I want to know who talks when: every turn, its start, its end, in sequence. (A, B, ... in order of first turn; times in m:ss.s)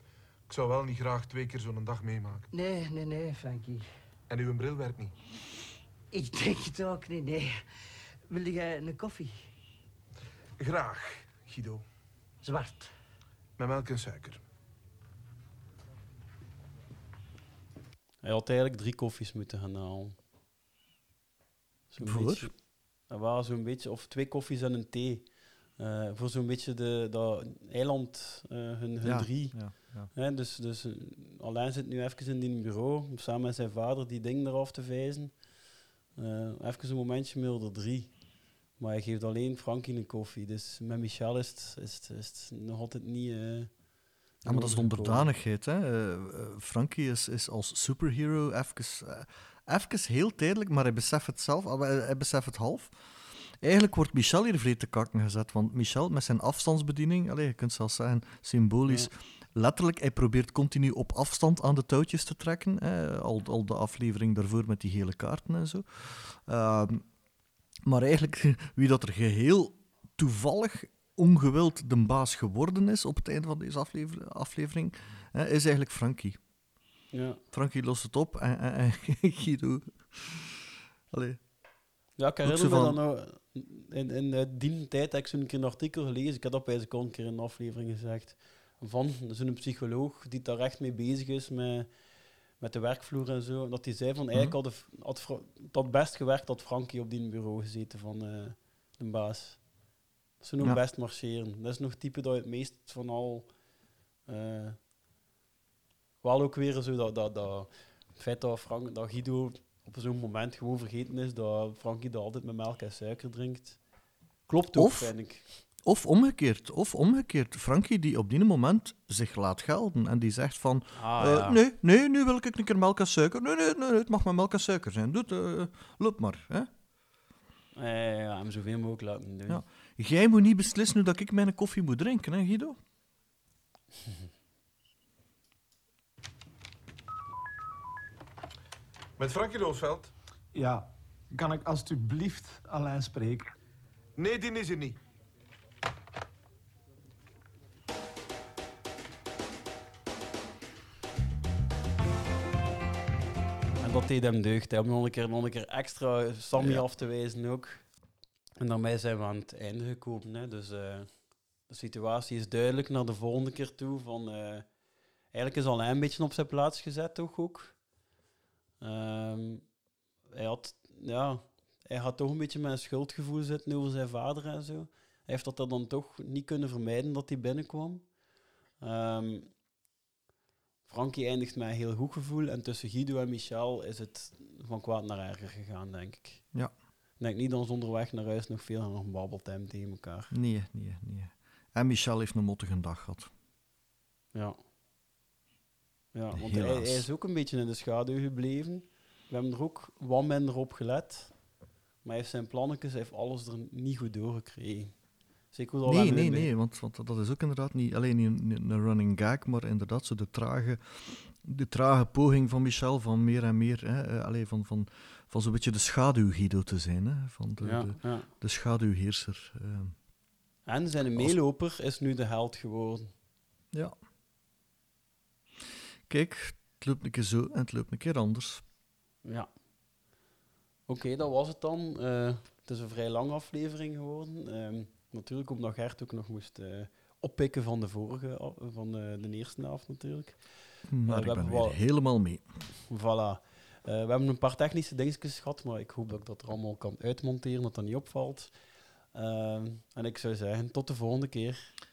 0:00.5-0:02.4 A
0:02.5-0:03.8 B
0:04.3-0:05.1 A
0:06.1-0:07.6 B
0:08.3-0:09.3 B
0:10.6-0:11.8 A
0:12.4-0:12.9 B
0:13.6-0:14.4 A
0:18.2-0:20.2 C
0:21.9-0:35.4 C
0:22.0-0:22.5 D
0:29.0-0:30.1 D
0:36.1-0:38.2 C
0:38.8-0:43.7 C
0:44.4-0:45.3 C
0:44.4-1:07.0 D
1:07.8-1:16.4 D
1:17.1-1:17.4 C
1:17.5-1:21.4 D
1:22.2-1:31.9 C
1:22.4-1:23.0 D
1:32.6-1:39.6 C
1:40.4-1:43.5 C
1:44.3-1:44.8 C
1:46.2-1:53.8 C
1:54.5-1:55.5 C
1:54.7-1:55.1 D
1:55.8-2:06.7 D
2:00.9-2:01.6 C
2:07.8-2:09.6 C
2:09.5-2:12.8 D
2:19.2-2:20.1 A
2:20.5-2:23.5 E
2:24.2-2:25.0 A
2:33.8-2:37.8 C
2:36.5-2:36.9 D
2:38.6-2:41.1 C
2:41.7-2:44.6 C
2:45.3-2:47.8 C
2:48.8-2:49.6 C
2:50.3-2:58.1 C
2:58.8-2:59.5 C
3:00.9-3:06.5 C
3:07.2-3:10.3 C
3:10.3-3:13.3 D
3:16.1-3:21.3 C
3:16.3-3:17.1 D
3:22.0-3:25.0 C
3:25.5-3:26.5 C
3:25.8-3:39.9 D
3:37.6-3:38.3 C
3:40.7-3:43.1 C
3:46.1-3:48.6 D
3:50.9-4:00.4 C
4:00.9-4:02.4 D
4:01.0-4:01.8 C
4:02.9-4:08.5 C
4:09.1-4:11.7 C